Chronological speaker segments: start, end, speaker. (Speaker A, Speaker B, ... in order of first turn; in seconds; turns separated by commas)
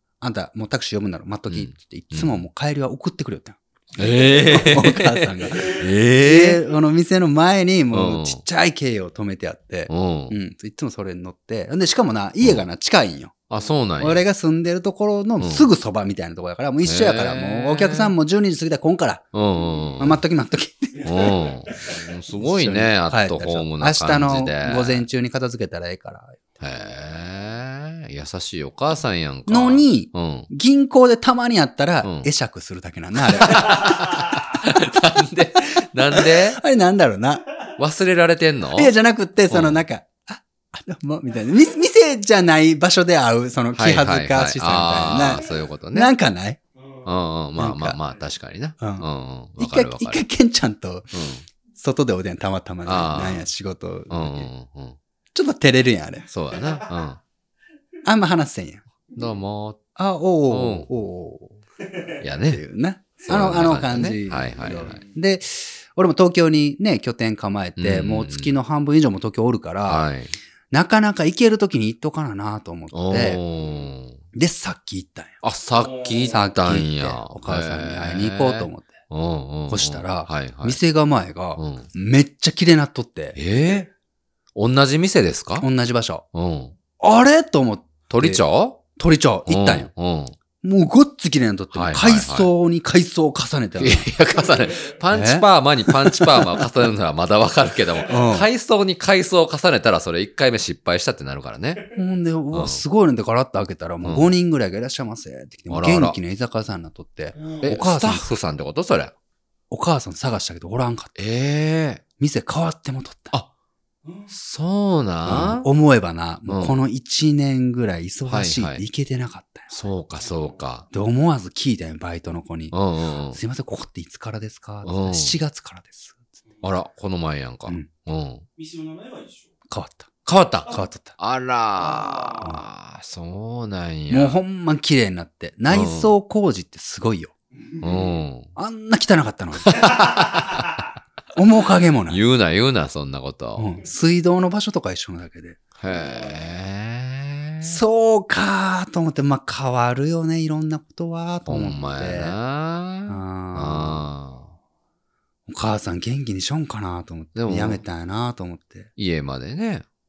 Speaker A: 0.2-13.3, Speaker B: 1.5-2.4, Speaker B: 4.0-6.6, Speaker B: 7.9-8.4, Speaker B: 9.9-10.3, Speaker B: 13.5-14.2, Speaker A: 14.0-19.2, Speaker B: 15.4-15.7, Speaker B: 16.8-18.1, Speaker B: 19.3-20.2, Speaker A: 20.0-21.4, Speaker B: 21.0-25.1, Speaker A: 22.4-26.4, Speaker B: 26.6-30.5, Speaker A: 29.5-34.2, Speaker B: 32.0-32.3, Speaker B: 33.2-36.6, Speaker A: 36.1-37.5, Speaker B: 37.8-38.9, Speaker A: 38.7-46.6, Speaker B: 39.5-39.8, Speaker B: 43.7-46.1, Speaker B: 47.0-50.2, Speaker A: 47.5-48.0, Speaker A: 48.8-49.0, Speaker A: 49.6-51.1, Speaker B: 51.1-51.4, Speaker A: 51.7-54.5, Speaker B: 52.8-53.5, Speaker B: 54.1-55.0, Speaker A: 55.3-56.3, Speaker B: 56.3-57.2, Speaker A: 58.0-58.8, Speaker B: 59.1-59.8, Speaker A: 60.0-61.6, Speaker B: 60.5-60.9, Speaker B: 62.2-62.6, Speaker A: 62.4-70.1, Speaker B: 63.2-65.0, Speaker B: 67.8-68.5, Speaker B: 69.9-70.3, Speaker A: 70.7-73.4, Speaker B: 72.9-74.2, Speaker A: 74.3-75.4, Speaker B: 75.4-80.8, Speaker C: 75.8-76.3, Speaker A: 76.3-79.0, Speaker A: 79.7-83.4, Speaker B: 81.6-81.9, Speaker B: 83.3-83.9, Speaker B: 84.5-85.7, Speaker A: 85.6-86.2, Speaker B: 86.3-86.7, Speaker A: 87.0-88.4, Speaker B: 88.1-88.8, Speaker A: 89.0-89.9, Speaker B: 89.5-90.3, Speaker A: 90.6-94.1, Speaker B: 91.7-92.5, Speaker B: 93.8-101.8, Speaker A: 95.1-96.7, Speaker A: 98.1-98.5, Speaker A: 101.9-108.3, Speaker B: 102.5-102.8, Speaker B: 104.0-104.3, Speaker B: 105.7-106.2, Speaker B: 107.6-109.1, Speaker A: 109.7-111.1, Speaker B: 111.2-112.0, Speaker A: 112.2-113.3, Speaker B: 114.3-115.7, Speaker A: 115.2-119.8, Speaker B: 116.5-116.8, Speaker B: 118.3-118.8, Speaker B: 119.7-120.8, Speaker A: 120.9-122.7, Speaker B: 122.7-123.4, Speaker A: 123.3-126.3, Speaker B: 124.8-125.3, Speaker B: 126.6-128.4, Speaker C: 128.6-129.5, Speaker A: 129.7-130.1, Speaker B: 130.2-134.4, Speaker A: 130.7-131.1, Speaker C: 131.8-132.4, Speaker A: 134.1-137.3, Speaker B: 135.7-136.1, Speaker B: 137.8-138.5, Speaker A: 138.5-140.1, Speaker B: 139.6-140.8, Speaker A: 141.3-142.2, Speaker B: 142.1-143.7, Speaker A: 143.6-145.6, Speaker B: 145.8-147.8, Speaker A: 147.6-152.3, Speaker B: 151.5-154.5, Speaker A: 153.1-154.1, Speaker A: 155.5-158.9, Speaker B: 157.3-157.8, Speaker B: 159.0-159.8